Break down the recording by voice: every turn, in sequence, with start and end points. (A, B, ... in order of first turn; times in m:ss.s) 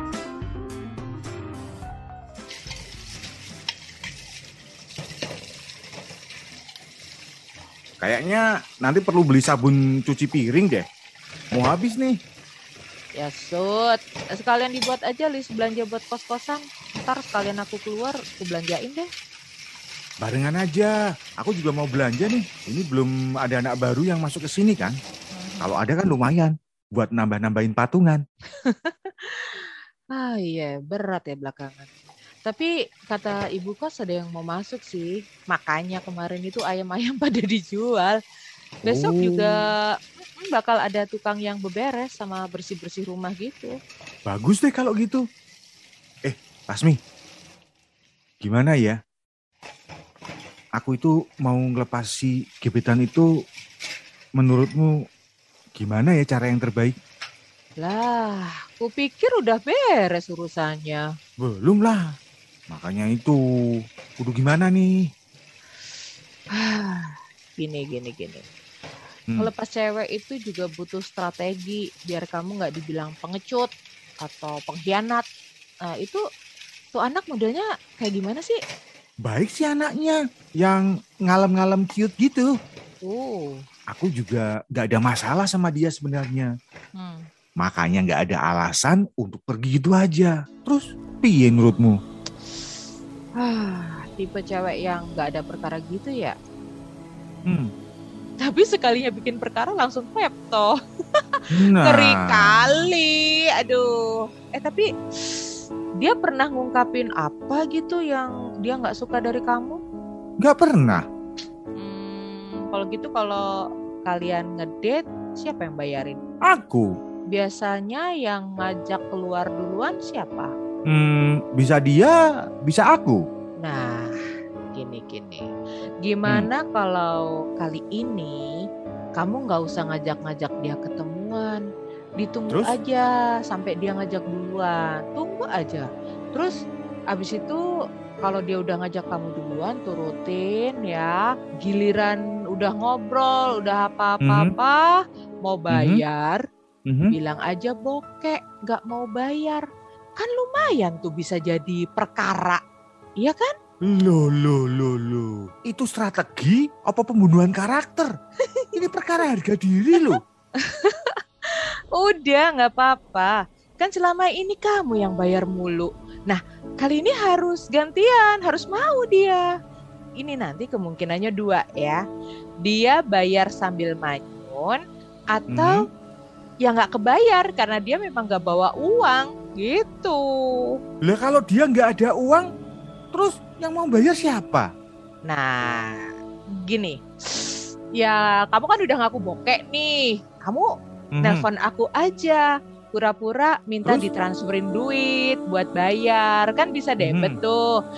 0:08.0-0:10.8 A
0:11.5-0:12.2 A
0:13.2-0:19.1 B
0:20.2-0:25.0 A
0:25.4-0:25.7 B
0:25.6-0:28.2 A
0:28.6-0:31.9 B
0:32.4-0:38.2 B
0:38.8-0:43.8 B
0:38.9-0:39.6 A
0:44.3-0:45.2 A
0:46.2-0:47.0 A
0:48.4-0:49.0 A
0:50.8-0:53.3 A
0:54.4-0:54.9 A
0:55.8-0:57.0 A
0:57.8-1:01.1 B
1:01.4-1:02.0 A
1:02.7-1:03.4 A
1:04.2-1:04.9 A
1:06.5-1:08.4 B
1:09.4-1:15.2 B
1:15.9-1:16.2 B
1:16.9-1:18.6 B
1:19.3-1:22.5 A
1:23.0-1:23.6 B
1:23.9-1:26.5 A
1:27.6-1:32.0 A
1:33.4-1:36.4 B
1:38.4-1:43.9 B
1:41.5-1:42.5 A
1:44.6-1:45.5 B
1:46.0-1:49.8 B
1:50.4-1:51.0 A
1:51.8-1:53.4 B
1:54.1-1:56.2 B
1:56.5-1:56.9 A
1:57.3-2:00.5 B
2:00.9-2:02.2 A
2:02.7-2:03.2 A
2:03.6-2:04.1 B
2:04.7-2:05.4 B
2:06.0-2:08.4 B
2:09.2-2:11.6 B
2:12.2-2:16.6 B
2:12.5-2:12.8 A
2:17.1-2:17.6 B
2:18.2-2:26.4 B
2:24.2-2:24.5 A
2:25.7-2:26.0 A
2:26.9-2:27.2 A
2:27.1-2:29.6 B
2:30.2-2:32.6 B
2:33.2-2:33.5 B
2:33.9-2:38.1 A
2:38.8-2:40.2 A
2:40.0-2:49.4 B
2:50.2-2:52.0 B
2:52.6-2:54.8 B
2:55.3-2:55.8 B
2:55.5-2:55.8 A
2:56.6-3:00.7 B
3:01.1-3:02.5 A
3:03.1-3:04.7 A
3:05.3-3:06.1 B
3:06.6-3:10.7 B
3:11.2-3:11.4 A
3:11.2-3:17.7 B
3:17.0-3:17.3 A